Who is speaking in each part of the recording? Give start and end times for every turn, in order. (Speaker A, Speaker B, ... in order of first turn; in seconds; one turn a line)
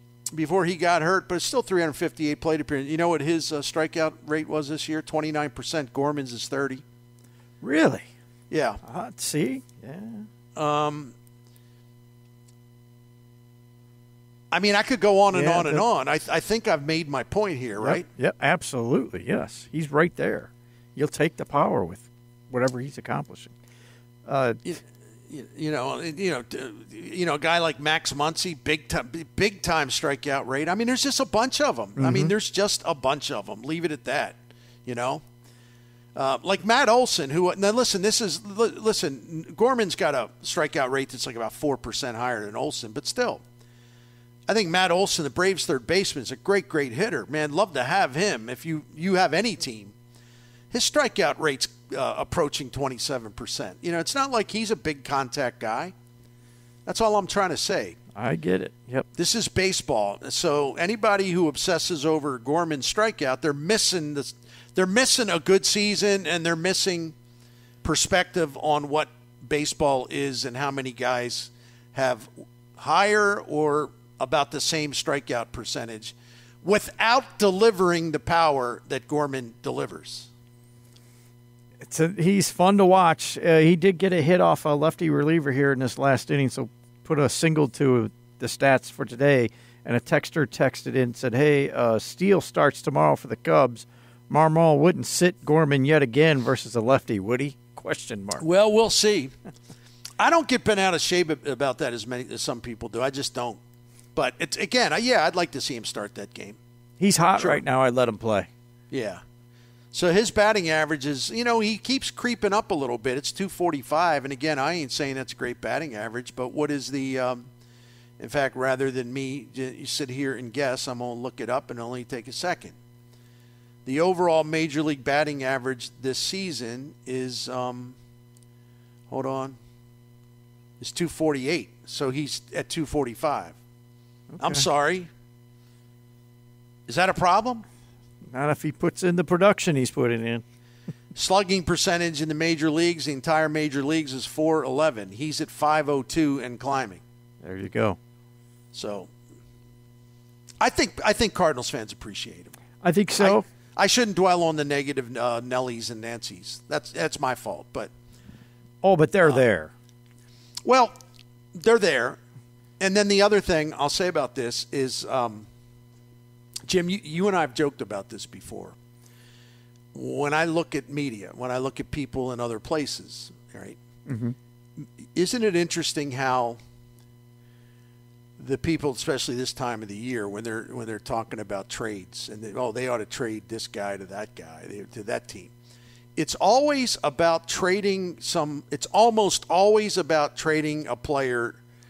Speaker A: 0.3-6.8
Speaker B: 7.6-8.1
Speaker A: 8.5-8.8
Speaker B: 8.8-10.2
Speaker A: 10.6-11.1
Speaker A: 14.5-18.1
Speaker B: 15.3-15.8
Speaker B: 17.8-23.5
Speaker B: 24.2-24.6
Speaker A: 24.6-35.2
Speaker B: 32.0-32.3
Speaker A: 36.1-43.4
Speaker A: 44.5-49.9
Speaker A: 50.7-55.9
Speaker A: 56.9-58.0
Speaker B: 58.1-59.1
Speaker A: 59.1-67.1
Speaker A: 67.8-80.3
Speaker B: 81.8-98.4
Speaker A: 98.4-99.3
Speaker A: 100.2-103.6
Speaker A: 104.1-106.6
Speaker B: 107.0-108.5
Speaker A: 107.4-107.6
Speaker A: 108.9-109.2
Speaker A: 109.9-117.5
Speaker A: 118.2-122.8
Speaker A: 123.8-128.0
Speaker A: 129.1-129.6
Speaker A: 130.8-133.6
Speaker B: 134.4-134.6
Speaker A: 134.4-135.1
Speaker A: 136.9-137.6
Speaker B: 138.3-140.4
Speaker A: 141.1-147.0
Speaker B: 147.4-148.0
Speaker A: 148.7-149.1
Speaker A: 150.6-152.5
Speaker B: 152.8-153.4
Speaker A: 153.2-157.9
Speaker B: 158.8-159.7
Speaker A: 160.7-160.9
Speaker A: 161.5-162.2
Speaker A: 162.8-165.5
Speaker A: 166.7-168.8
Speaker A: 169.9-173.8
Speaker B: 174.1-174.3
Speaker A: 175.1-176.6
Speaker A: 178.4-185.5
Speaker A: 186.2-191.6